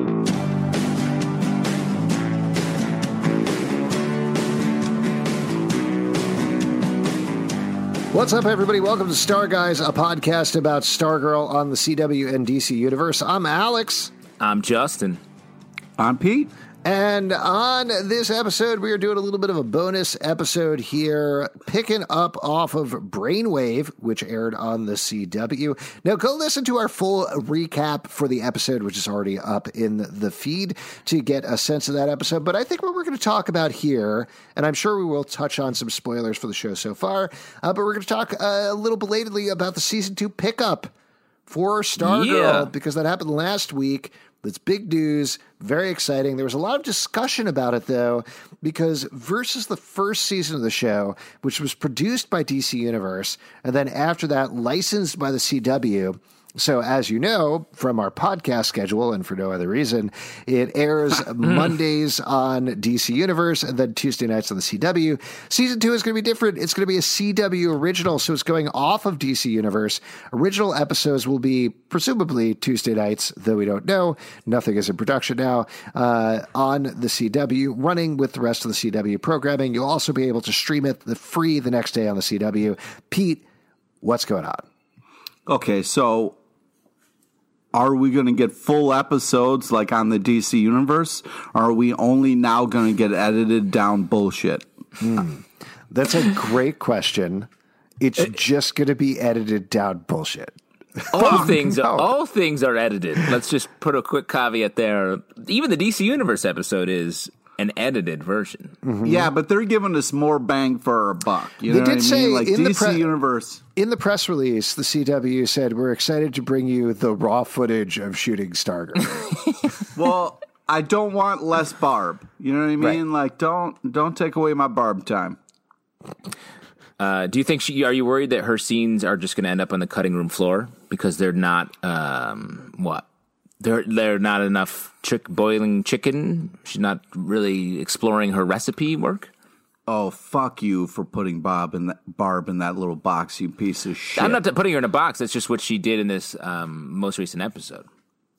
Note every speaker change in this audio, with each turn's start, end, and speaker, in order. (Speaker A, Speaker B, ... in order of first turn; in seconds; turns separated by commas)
Speaker A: 8.1-14.1, Speaker B: 14.4-15.2, Speaker C: 16.0-16.5, Speaker A: 16.8-40.9, Speaker A: 41.5-83.4, Speaker B: 42.0-42.7, Speaker A: 84.0-84.6, Speaker C: 85.5-86.4, Speaker C: 87.7-94.7, Speaker A: 95.0-97.5, Speaker A: 98.0-102.0, Speaker C: 101.1-101.6, Speaker B: 101.2-108.8, Speaker A: 108.8-109.3, Speaker C: 109.0-113.6, Speaker A: 111.7-113.1, Speaker A: 113.8-119.3, Speaker C: 119.9-125.4, Speaker B: 127.0-133.0, Speaker B: 133.6-139.3, Speaker C: 139.9-144.4, Speaker B: 144.1-147.9